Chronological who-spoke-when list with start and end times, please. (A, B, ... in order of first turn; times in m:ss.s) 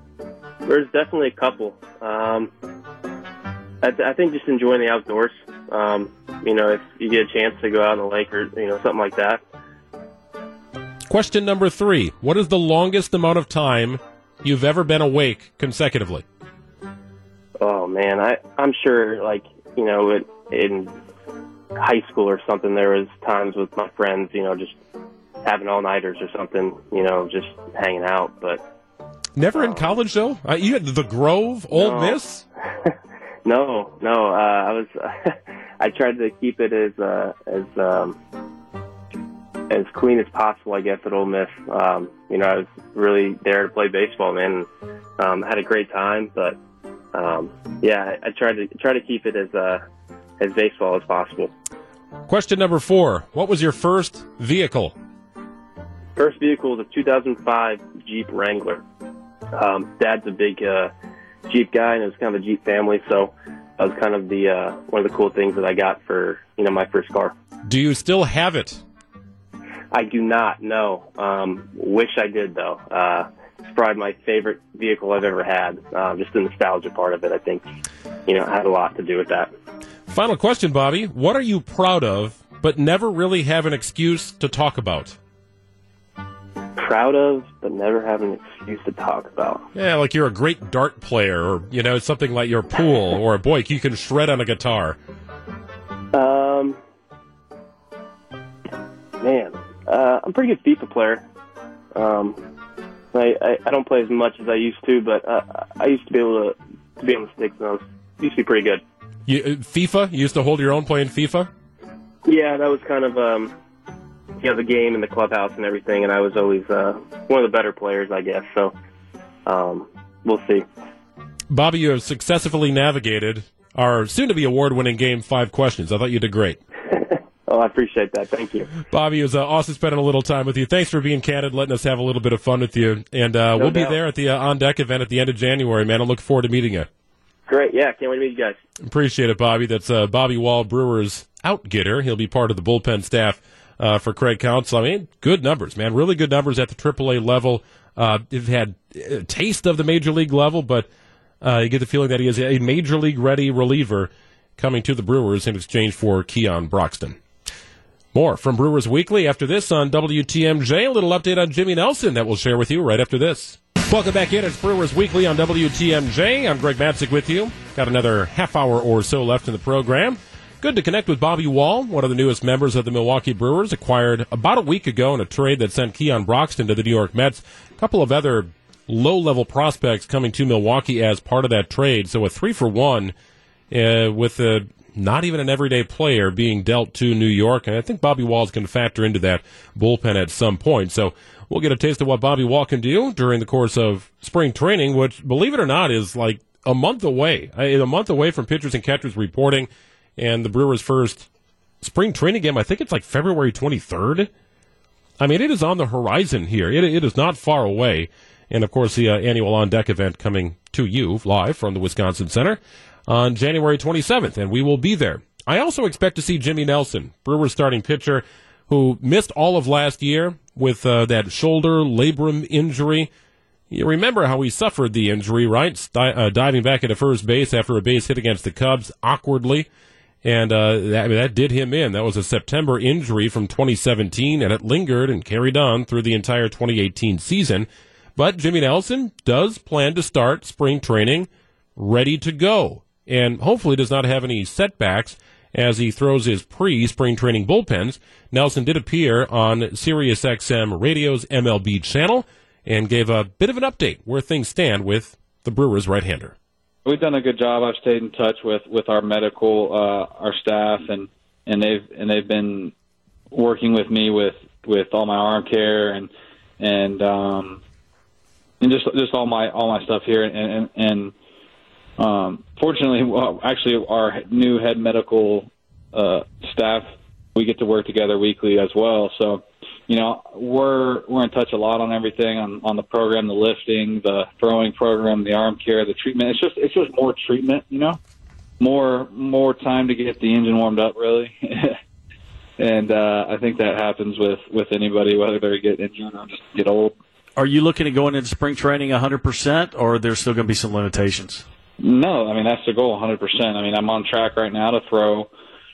0:00.6-0:02.5 A
0:03.8-0:09.4 A
0:11.1-0:16.2 B
0:17.6-0:20.9 A
0:21.8-0:24.8 A
0:25.4-0:28.6 A
0:29.4-0:32.4 B
0:29.5-0:29.8 A
0:31.7-0:32.2 A
0:32.8-0:38.2 A
0:39.7-0:44.7 A
0:45.2-0:46.6 A
0:47.1-0:49.8 A
0:50.4-0:51.5 A
0:52.3-0:54.9 B
0:56.2-0:58.8 A
0:59.5-1:00.9 A
1:01.5-1:07.3 A
1:07.6-1:08.8 B
1:09.9-1:17.6 A
1:18.3-1:19.5 A
1:20.1-1:25.2 B
1:26.8-1:29.6 A
1:29.7-1:35.0 B
1:36.1-1:36.8 A
1:39.2-1:41.2 A
1:41.9-1:42.4 A
1:43.1-1:48.8 A
1:49.3-1:51.5 B
1:52.2-1:53.5 A
1:54.4-1:58.7 A
1:59.4-2:00.6 A
2:01.5-2:06.6 B
2:06.9-2:08.7 A
2:08.9-2:16.9 B
2:13.5-2:14.0 A
2:17.5-2:18.6 A
2:18.8-2:30.9 B
2:31.4-2:37.2 B
2:38.1-3:03.1 B
3:03.7-3:21.3 B
3:21.8-3:24.3 B
3:25.2-3:43.1 B
3:43.7-3:49.7 B
3:50.2-4:16.3 B
4:16.8-4:22.7 C
4:23.3-4:27.6 C
4:28.6-4:31.1 C
4:32.0-4:48.0 C
4:48.6-4:51.8 C
4:52.6-4:57.0 C
4:57.4-5:01.4 D
5:01.8-5:05.3 C